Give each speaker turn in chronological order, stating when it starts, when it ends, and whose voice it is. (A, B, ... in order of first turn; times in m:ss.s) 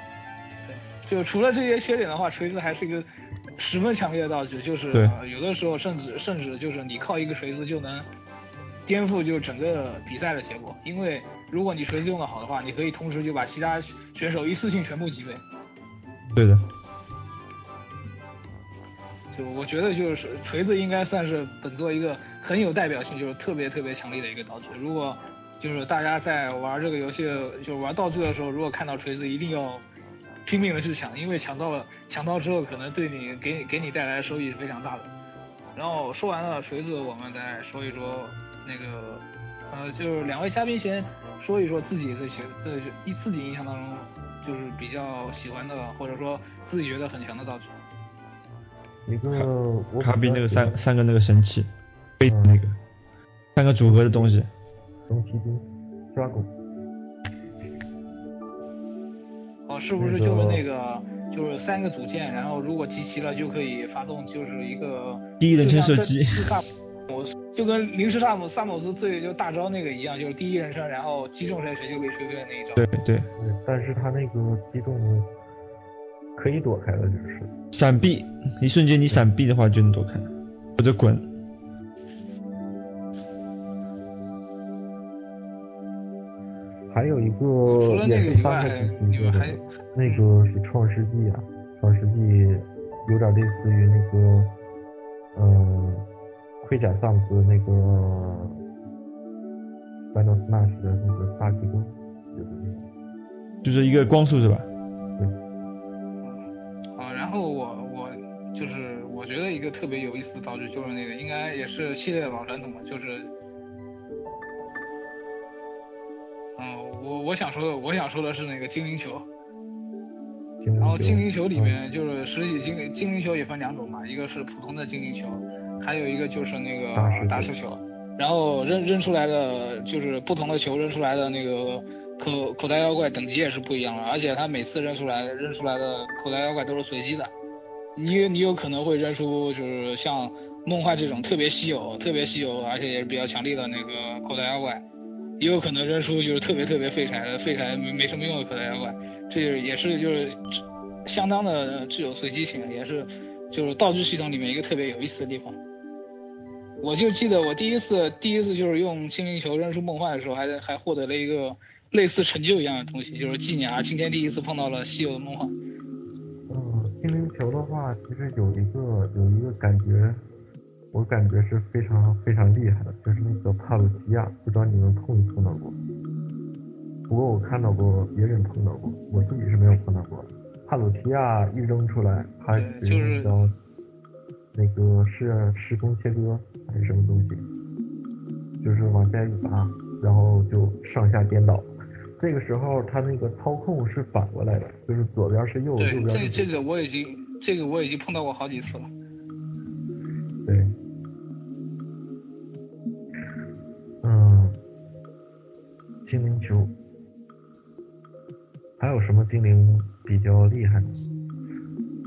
0:00.7-0:08.1 A
0:08.9-0:15.4 A
0:16.3-0:16.6 B
0:19.3-0:29.8 A
0:30.5-0:35.1 A
0:35.8-0:47.7 A
0:49.1-0:50.8 C
0:50.0-0:52.7 B
0:52.2-0:52.6 C
0:53.6-0:54.5 B
0:53.8-0:54.3 C
0:55.1-0:56.5 C
0:59.7-1:12.8 A
1:00.0-1:00.7 C
1:05.4-1:06.6 B
1:12.8-1:13.3 B
1:13.4-1:15.3 C
1:16.4-1:17.5 C
1:17.7-1:21.3 B
1:26.9-1:34.5 C
1:27.7-1:30.2 A
1:35.4-1:36.1 C
1:36.6-1:38.6 C
1:40.1-1:42.9 C
1:43.6-1:44.7 B
1:47.0-1:53.3 A
1:56.6-1:59.3 A
2:00.6-2:01.8 C
2:00.8-2:17.3 A
2:06.9-2:07.6 C
2:18.0-2:24.8 A
2:25.4-2:35.6 A
2:36.8-2:45.5 A
2:46.5-2:50.2 C
2:50.9-2:55.8 C
2:57.1-3:03.6 C
3:02.5-3:03.4 A
3:04.5-3:07.5 C
3:08.6-3:16.5 C
3:15.8-3:18.9 A
3:20.4-3:20.7 C
3:24.0-3:24.6 C
3:26.1-3:26.7 C
3:28.8-3:31.1 C